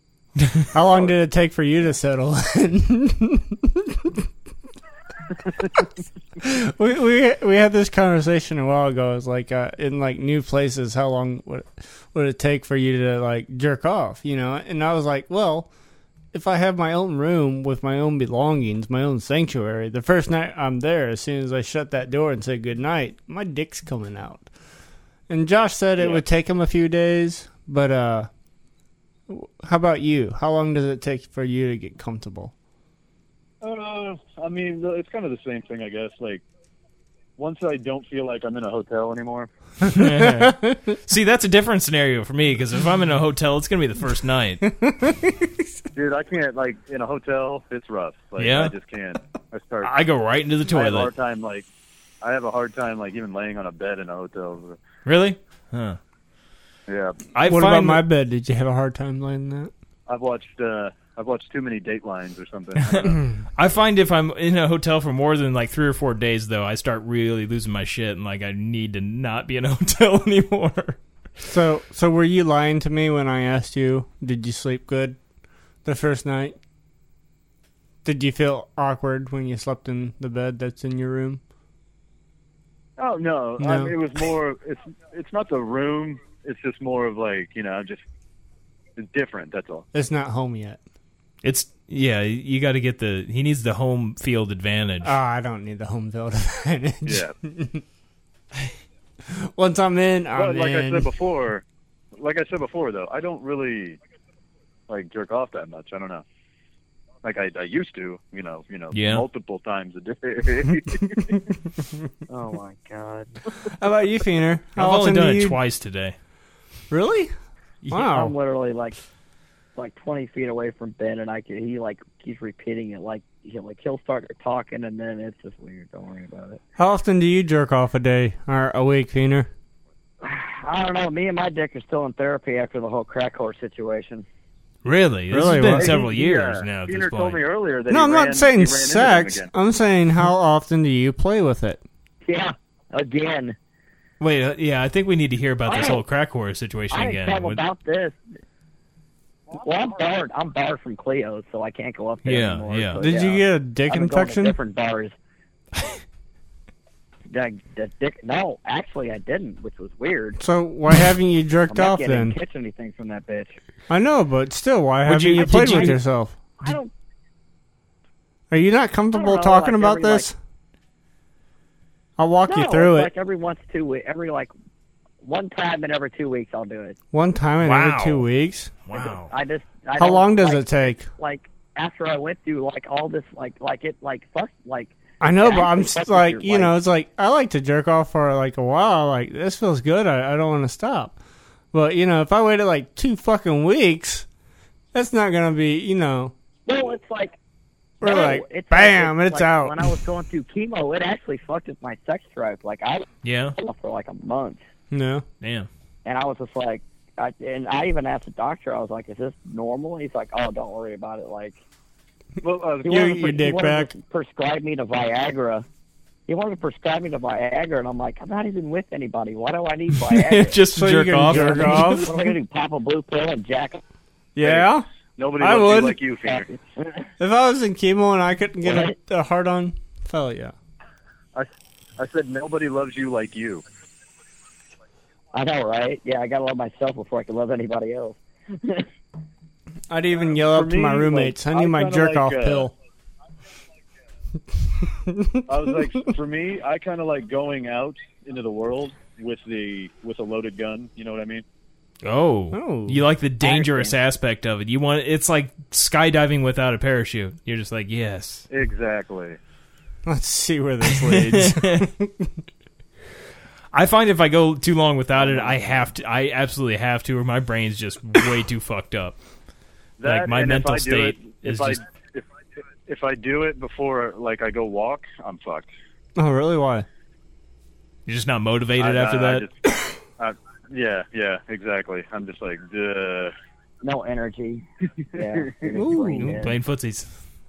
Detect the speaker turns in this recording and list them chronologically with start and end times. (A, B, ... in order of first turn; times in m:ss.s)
0:00.4-0:00.7 A
0:00.7-0:04.3 B
0:00.8-0:01.1 C
0:06.4-0:15.7 B
0:16.3-0:24.5 B
0:25.3-0:28.3 B
0:26.0-0:26.2 C
0:29.3-0:32.5 B
0:33.6-0:36.4 C
0:37.4-0:39.5 C
0:39.8-0:40.8 B
0:39.9-0:44.6 A
0:44.6-0:45.7 B
0:45.9-0:49.9 C
0:48.4-0:48.8 A
0:49.8-0:51.1 A
0:50.7-0:51.6 C
0:52.2-0:54.8 C
0:55.1-0:56.0 A
0:56.9-0:57.2 C
0:57.3-0:58.1 A
0:57.4-0:59.7 B
1:00.1-1:03.2 C
1:02.8-1:11.0 A
1:03.1-1:03.4 B
1:11.4-1:15.2 B
1:15.8-1:16.6 B
1:18.0-1:21.4 B
1:23.0-1:28.0 C
1:23.6-1:24.0 B
1:29.0-1:29.9 C
1:29.9-1:30.8 B
1:31.4-1:35.2 A
1:35.0-1:37.8 B
1:37.0-1:37.3 C
1:39.3-1:41.1 B
1:40.3-1:41.6 C
1:42.2-1:44.0 C
1:44.9-1:46.2 C
1:47.2-1:51.5 C
1:48.9-1:49.3 A
1:52.3-1:53.4 D
1:53.6-1:55.6 B
1:54.8-1:56.2 A
1:56.9-1:57.3 B
1:57.9-1:58.4 B
1:57.9-1:59.0 D
1:59.8-2:06.6 D
2:06.8-2:09.5 B
2:10.2-2:14.2 D
2:14.8-2:17.4 A
2:15.3-2:16.0 B
2:15.7-2:19.5 C
2:17.9-2:21.8 B
2:22.2-2:23.6 D
2:24.2-2:27.6 A
2:25.7-2:26.0 D
2:26.9-2:28.2 D
2:29.6-2:35.2 D
2:32.2-2:33.0 A
2:33.0-2:34.6 B
2:37.3-2:40.4 D
2:40.4-2:42.4 B
2:41.7-2:43.6 D
2:43.9-2:46.4 B
2:45.0-2:46.0 A
2:45.4-2:46.0 D
2:46.6-2:46.9 D
2:48.5-2:50.4 B
2:49.1-2:50.3 D
2:52.2-2:53.1 B
2:52.4-2:54.5 D
2:55.2-2:57.0 D
2:57.1-2:58.8 B
2:57.6-2:58.2 A
2:58.9-2:59.3 A
2:59.3-3:06.8 D
3:00.0-3:01.1 B
3:05.2-3:11.2 B
3:11.7-3:14.3 B
3:14.9-3:16.3 B
3:16.7-3:17.4 D
3:18.0-3:19.9 B
3:18.0-3:23.1 D
3:23.2-3:23.6 A
3:23.6-3:24.6 D
3:24.9-3:25.3 B
3:25.4-3:25.7 A
3:26.0-3:31.6 D
3:32.4-3:33.2 C
3:32.8-3:33.9 B
3:32.8-3:35.7 D
3:36.3-3:40.6 D
3:40.0-3:42.1 A
3:40.7-3:42.3 B
3:41.3-3:43.8 D
3:44.4-3:44.9 B
3:44.4-3:46.5 C
3:45.4-3:46.0 B
3:46.2-3:47.1 D
3:47.2-3:50.6 B
3:48.6-3:49.0 D
3:51.4-3:53.6 C
3:55.3-3:58.9 D
3:59.9-4:02.7 B
4:00.4-4:02.7 C
4:04.8-4:05.6 B
4:05.5-4:11.4 C
4:12.0-4:18.4 A
4:12.5-4:13.0 B
4:13.4-4:13.9 D
4:18.5-4:19.4 C
4:20.1-4:22.3 B
4:20.9-4:21.9 A
4:23.7-4:29.2 A
4:25.2-4:25.9 C
4:30.0-4:32.3 C
4:30.0-4:31.8 A
4:32.9-4:35.7 C
4:36.2-4:36.9 B
4:38.1-4:39.5 A
4:38.8-4:39.5 C
4:40.2-4:43.3 C
4:43.8-4:46.6 D
4:45.7-4:46.4 B
4:46.2-4:47.1 A